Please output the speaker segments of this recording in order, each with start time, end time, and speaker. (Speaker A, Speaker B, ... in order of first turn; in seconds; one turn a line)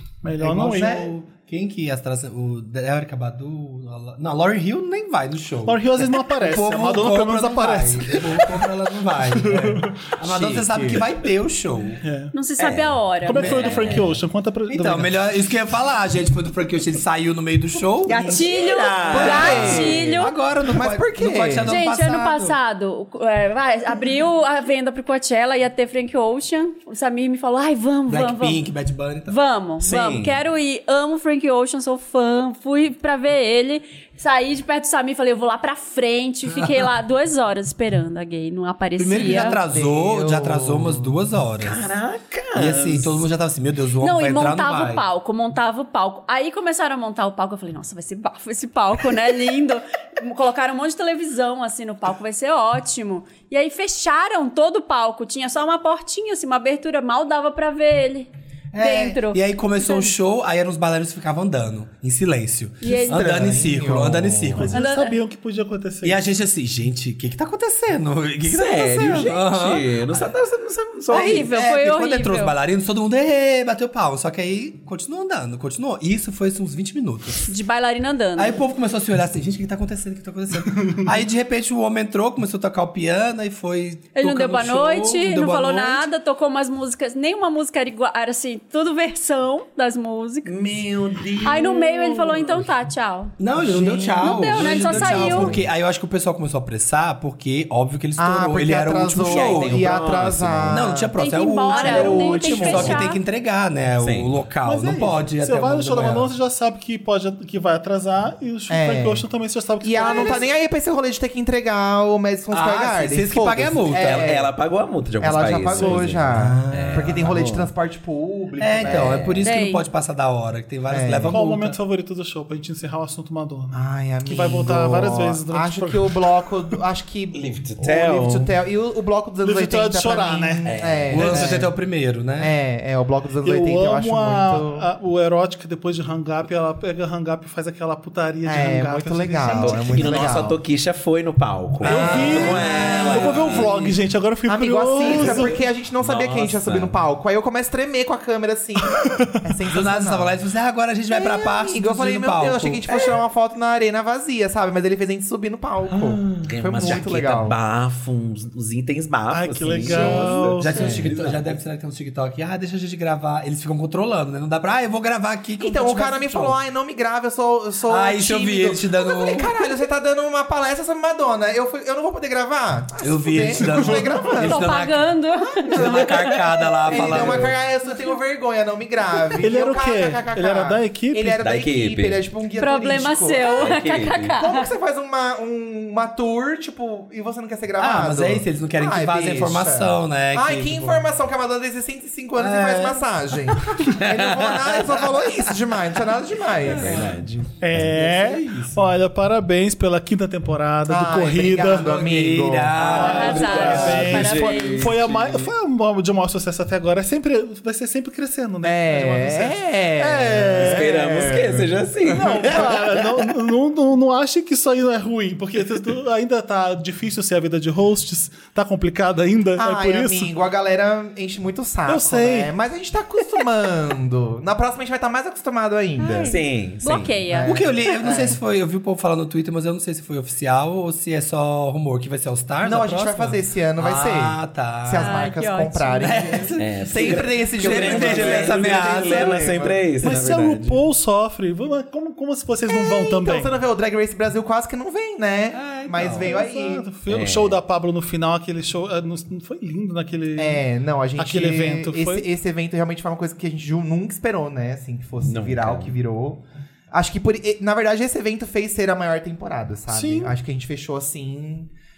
Speaker A: 0.2-1.1
Speaker B: 0.4-1.1
Speaker C: 0.4-12.0
Speaker A: 5.6-8.6
Speaker A: 9.3-10.1
Speaker A: 12.0-12.3
Speaker D: 12.3-13.8
Speaker E: 12.6-13.0
Speaker A: 13.2-15.2
Speaker C: 13.3-14.1
Speaker C: 14.7-18.5
Speaker D: 18.1-20.3
Speaker E: 18.1-20.2
Speaker B: 19.1-20.0
Speaker C: 19.1-22.6
Speaker B: 20.6-21.8
Speaker D: 21.6-28.6
Speaker C: 28.1-29.4
Speaker D: 29.3-39.6
Speaker E: 29.8-30.4
Speaker C: 39.0-41.8
Speaker B: 39.2-41.2
Speaker E: 41.6-43.2
Speaker C: 42.5-45.0
Speaker D: 44.0-60.1
Speaker C: 58.7-64.8
Speaker D: 62.8-63.4
Speaker B: 62.9-64.7
Speaker A: 64.5-66.2
Speaker D: 64.7-65.2
Speaker C: 66.0-70.3
Speaker E: 68.5-71.5
Speaker D: 71.1-72.5
Speaker C: 71.1-77.5
Speaker D: 77.5-78.5
Speaker C: 78.4-86.1
Speaker D: 84.1-90.6
Speaker E: 90.5-92.7
Speaker D: 91.4-93.3
Speaker C: 93.4-106.3
Speaker B: 93.6-95.6
Speaker D: 94.2-95.5
Speaker B: 98.2-101.1
Speaker E: 99.2-100.8
Speaker D: 101.2-103.2
Speaker B: 101.7-103.0
Speaker E: 101.8-102.9
Speaker E: 104.0-104.3
Speaker A: 104.6-110.5
Speaker B: 108.7-109.2
Speaker B: 109.8-114.5
Speaker C: 112.5-114.3
Speaker E: 113.9-117.7
Speaker B: 115.2-119.4
Speaker A: 115.7-116.0
Speaker C: 116.3-117.4
Speaker C: 118.6-121.8
Speaker E: 118.8-119.3
Speaker D: 119.4-119.8
Speaker B: 120.9-121.4
Speaker A: 121.3-126.3
Speaker B: 123.7-131.7
Speaker E: 127.3-128.5
Speaker A: 129.4-130.7
Speaker E: 130.6-131.5
Speaker C: 131.1-132.5
Speaker B: 132.4-134.9
Speaker A: 133.4-140.4
Speaker B: 138.4-140.6
Speaker E: 139.5-143.9
Speaker C: 141.8-143.8
Speaker A: 141.8-145.5
Speaker B: 144.5-150.3
Speaker E: 145.0-147.0
Speaker A: 148.9-149.4
Speaker C: 149.7-152.8
Speaker B: 151.1-157.6
Speaker E: 155.9-161.4
Speaker A: 159.3-160.9
Speaker B: 159.9-160.2
Speaker C: 160.0-166.6
Speaker B: 160.7-161.0
Speaker B: 165.6-174.6
Speaker C: 167.9-169.5
Speaker C: 173.0-175.1
Speaker A: 173.6-174.2
Speaker D: 174.4-176.6
Speaker B: 175.5-183.8
Speaker C: 175.7-177.5
Speaker E: 176.9-177.4
Speaker A: 179.4-181.4
Speaker E: 181.4-182.2
Speaker D: 182.6-184.7
Speaker E: 183.4-184.4
Speaker B: 184.4-197.1
Speaker C: 187.8-191.0
Speaker C: 192.4-193.1
Speaker E: 193.8-195.2
Speaker C: 196.7-197.2
Speaker E: 196.7-197.5
Speaker A: 197.6-201.9
Speaker C: 197.7-198.9
Speaker B: 200.9-203.2
Speaker C: 201.7-204.3
Speaker A: 202.8-211.3
Speaker E: 202.9-205.4
Speaker D: 203.0-205.0
Speaker B: 208.6-211.8
Speaker E: 210.6-213.1
Speaker A: 212.0-220.3
Speaker B: 219.6-226.3
Speaker A: 221.8-222.5
Speaker D: 226.0-227.9
Speaker E: 226.3-227.2
Speaker B: 227.3-228.4
Speaker C: 227.4-235.2
Speaker B: 232.6-239.5
Speaker D: 235.0-236.3
Speaker C: 236.0-239.8
Speaker E: 236.6-240.8
Speaker A: 240.0-243.5
Speaker B: 242.7-246.9
Speaker C: 245.5-246.4
Speaker A: 246.2-250.6
Speaker E: 247.1-247.6
Speaker B: 250.3-261.7
Speaker A: 251.2-252.3
Speaker E: 255.2-255.9
Speaker A: 259.9-260.3